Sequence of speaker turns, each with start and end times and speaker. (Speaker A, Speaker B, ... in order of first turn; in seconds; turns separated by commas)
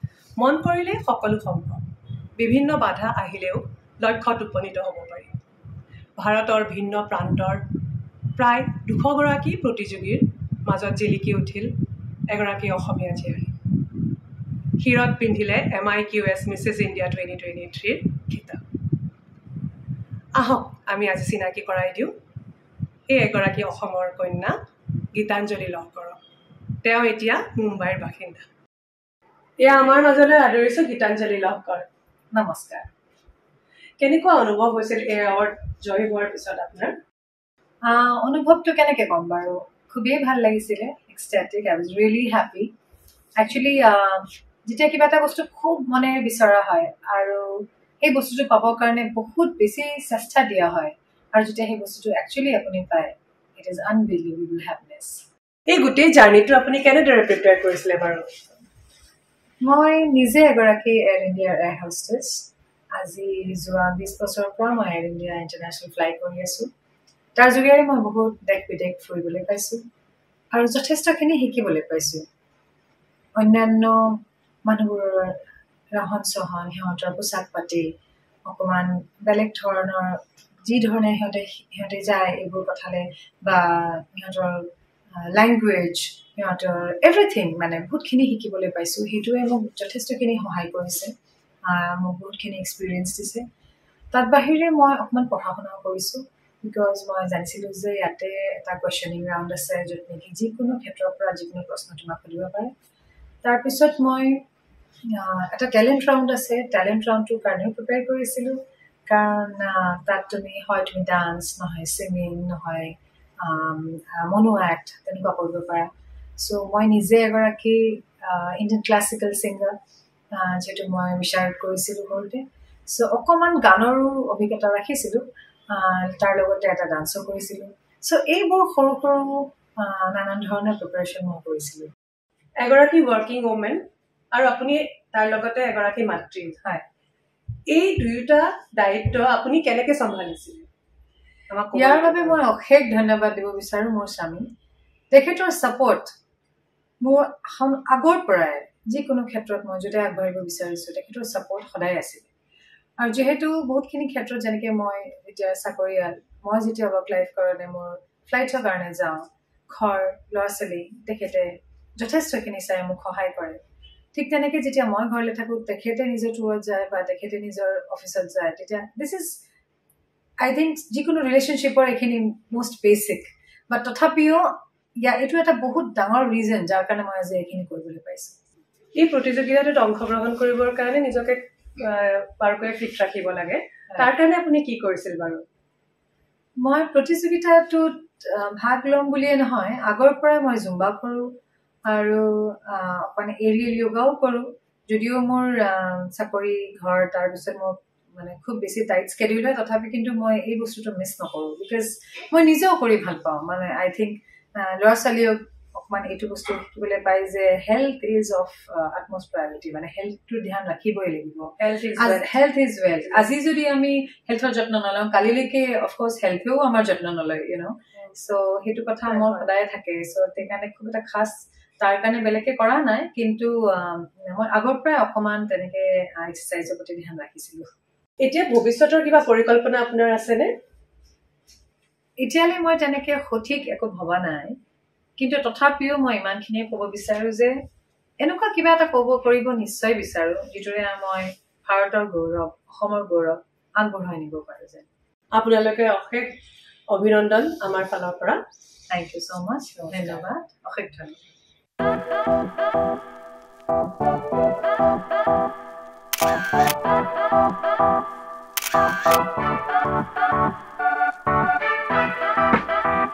Speaker A: 0.4-5.4, Speaker A: 6.2-7.8, Speaker A: 8.3-13.6, Speaker A: 14.8-18.6, Speaker A: 20.4-22.2, Speaker A: 23.1-24.6, Speaker A: 25.1-26.2, Speaker A: 26.8-28.4, Speaker A: 29.6-31.9, Speaker B: 32.3-32.9, Speaker A: 34.0-37.0, Speaker B: 37.8-42.7, Speaker B: 43.4-55.2, Speaker A: 55.7-58.3, Speaker B: 59.6-66.7, Speaker B: 67.4-69.8, Speaker B: 70.5-72.3, Speaker B: 73.4-75.4, Speaker B: 75.9-78.0, Speaker B: 78.5-91.1, Speaker B: 91.7-93.5, Speaker B: 94.1-102.7, Speaker B: 103.4-104.5, Speaker B: 105.1-119.8, Speaker B: 120.3-131.9, Speaker A: 132.6-136.6, Speaker A: 137.7-140.7, Speaker A: 141.5-142.4, Speaker B: 141.7-144.5, Speaker B: 145.1-146.1, Speaker B: 147.0-152.3, Speaker B: 153.0-163.6, Speaker B: 164.1-169.4, Speaker B: 170.4-178.4, Speaker A: 179.0-185.4, Speaker B: 186.6-191.3, Speaker B: 191.9-227.7, Speaker A: 211.6-212.4, Speaker A: 219.1-219.4, Speaker A: 228.2-230.5, Speaker B: 232.2-234.6, Speaker B: 235.2-237.6, Speaker B: 238.2-244.9, Speaker A: 245.3-246.4, Speaker A: 246.9-248.4, Speaker B: 248.9-251.2